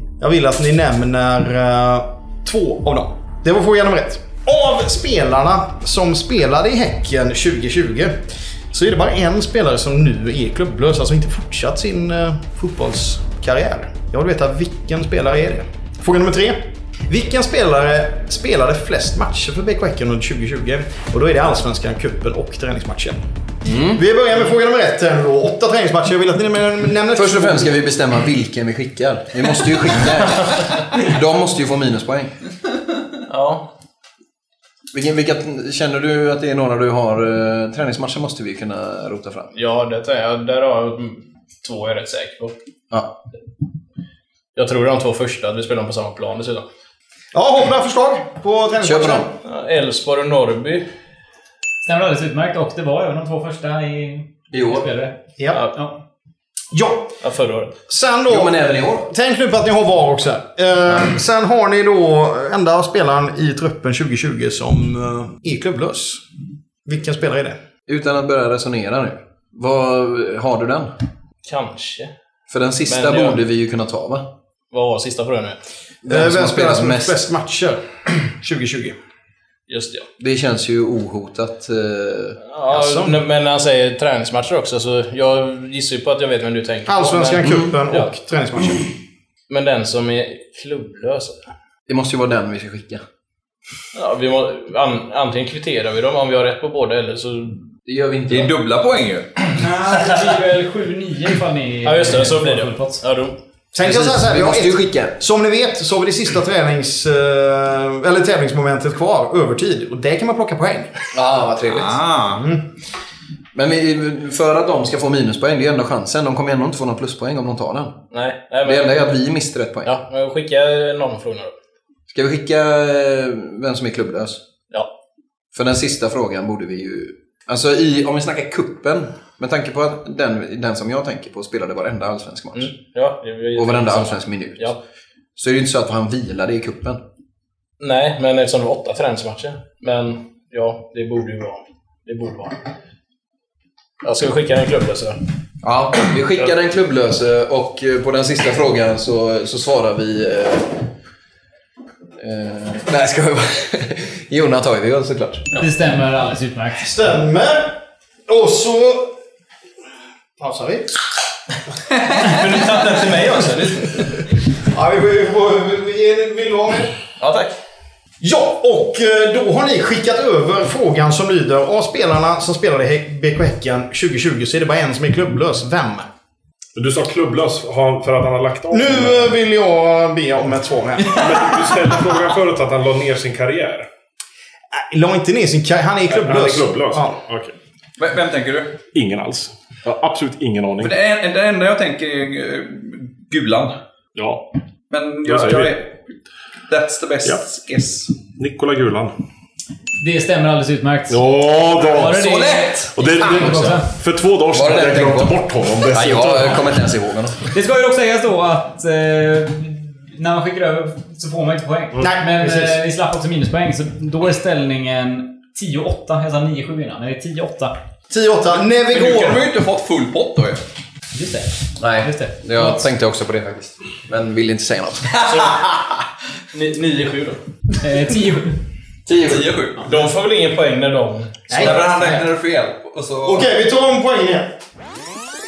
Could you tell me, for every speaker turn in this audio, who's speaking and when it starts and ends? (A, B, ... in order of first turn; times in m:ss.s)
0:00.2-0:23.2 A
0:23.6-0:24.0 B
0:23.9-0:27.8 A
0:27.1-0:32.3 B
0:33.3-0:33.7 C
0:34.9-0:39.5 B
0:39.5-0:42.5 C
0:44.6-0:46.7 C
0:47.3-0:49.3 A
0:48.8-0:49.3 B
0:49.4-0:50.9 C
0:51.8-0:55.2 D
0:54.5-0:54.9 B
0:56.7-0:57.2 A
0:57.2-0:57.7 C
0:57.9-1:06.2 A
0:58.3-0:59.1 B
1:00.9-1:01.2 B
1:06.9-1:07.6 A
1:07.9-1:10.9 B
1:11.4-1:12.1 C
1:12.5-1:14.3 B
1:12.9-1:13.4 C
1:14.7-1:15.6 C
1:16.0-1:17.2 B
1:16.1-1:19.0 A
1:19.7-1:20.1 C
1:20.2-1:22.4 B
1:22.4-1:28.1 C
1:22.7-1:23.2 A
1:26.9-1:28.9 A
1:27.4-1:27.7 B
1:29.5-1:31.4 C
1:31.9-1:33.0 B
1:33.9-1:37.6 C
1:37.8-1:38.5 B
1:38.3-1:39.4 E
1:39.6-1:43.0 D
1:41.8-1:43.4 C
1:43.7-1:50.9 A
1:43.8-1:45.2 B
1:51.1-1:52.0 B
1:51.7-1:52.4 E
1:52.3-1:52.6 A
1:53.5-1:58.0 B
1:58.1-1:59.0 C
1:58.6-2:00.0 B
1:59.8-2:01.5 C
2:02.1-2:04.4 B
2:05.5-2:12.7 B
2:12.5-2:14.8 C
2:13.6-2:14.8 B
2:15.4-2:17.0 B
2:17.8-2:22.6 C
2:24.0-2:25.2 C
2:25.6-2:30.8 B
2:32.2-2:35.5 B
2:35.6-2:36.9 D
2:36.8-2:37.8 A
2:38.3-2:39.1 A
2:40.4-2:40.9 A
2:42.1-2:44.1 C
2:44.7-2:46.9 A
2:47.2-2:47.6 C
2:48.2-2:56.1 A
2:56.8-2:59.3 F
2:58.7-3:01.3 A
3:01.0-3:03.9 F
3:04.7-3:07.1 A
3:06.1-3:07.5 F
3:08.0-3:08.8 E
3:08.9-3:11.0 F
3:10.8-3:13.8 E
3:14.2-3:14.4 F
3:14.9-3:16.0 E
3:15.2-3:15.8 F
3:16.7-3:18.1 E
3:18.2-3:19.2 F
3:20.0-3:23.9 D
3:21.1-3:22.3 F
3:22.2-3:23.7 E
3:23.0-3:26.8 F
3:23.2-3:23.7 B
3:24.5-3:27.4 B
3:27.5-3:37.8 D
3:32.0-3:32.8 A
3:38.1-3:39.4 A
3:38.9-3:40.6 E
3:41.1-3:42.9 D
3:41.8-3:45.2 B
3:45.3-3:45.6 C
3:46.5-3:47.4 C
3:47.8-3:48.6 D
3:49.1-3:49.5 B
3:49.1-3:50.0 E
3:49.8-3:51.7 C
3:51.5-3:51.9 A
3:51.5-3:53.5 E
3:53.2-3:54.5 A